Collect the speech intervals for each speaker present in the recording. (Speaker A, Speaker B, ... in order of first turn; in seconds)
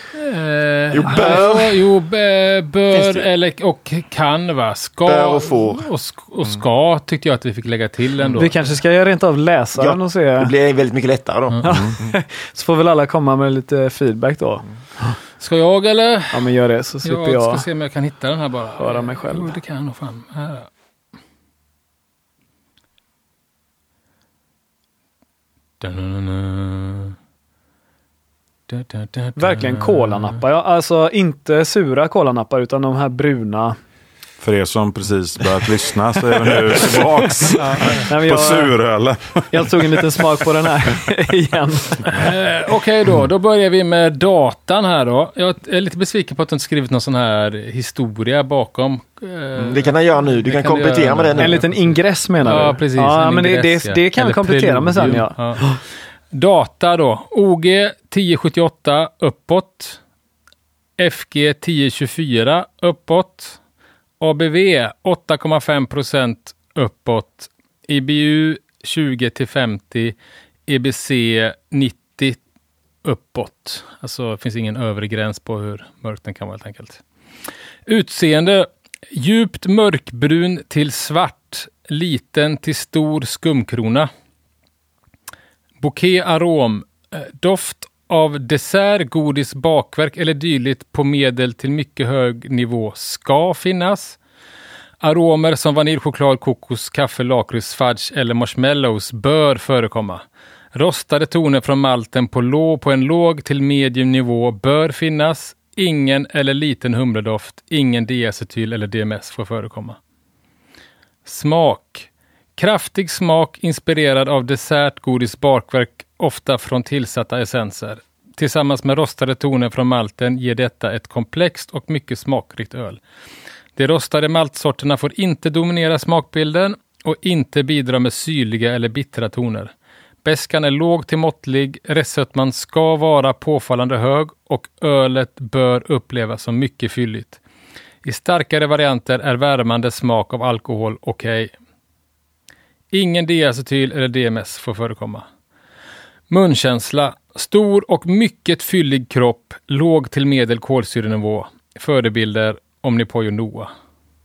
Speaker A: 0.1-8.7, 15.4-16.5, 17.0-20.7, 25.8-27.2, 28.7-30.4, 37.5-38.1, 42.1-55.8, 56.3-60.0, 61.0-63.6, 64.2-70.2, 70.7-72.4, 73.0-77.0, 77.9-84.1, 85.8-94.2, 95.0-110.0, 111.3-123.0, 123.8-129.7, 130.2-137.4, 138.0-141.5, 142.9-145.2, 146.3-153.7
Speaker B: 0.9-1.8, 2.9-3.3, 5.0-5.8, 9.8-12.1, 49.6-51.6
Speaker C: 8.4-10.5, 11.6-14.7, 16.3-17.6, 18.8-19.6, 29.4-33.8, 38.0-38.7, 39.5-42.2, 51.4-55.8
Speaker D: 11.7-11.9, 34.4-40.2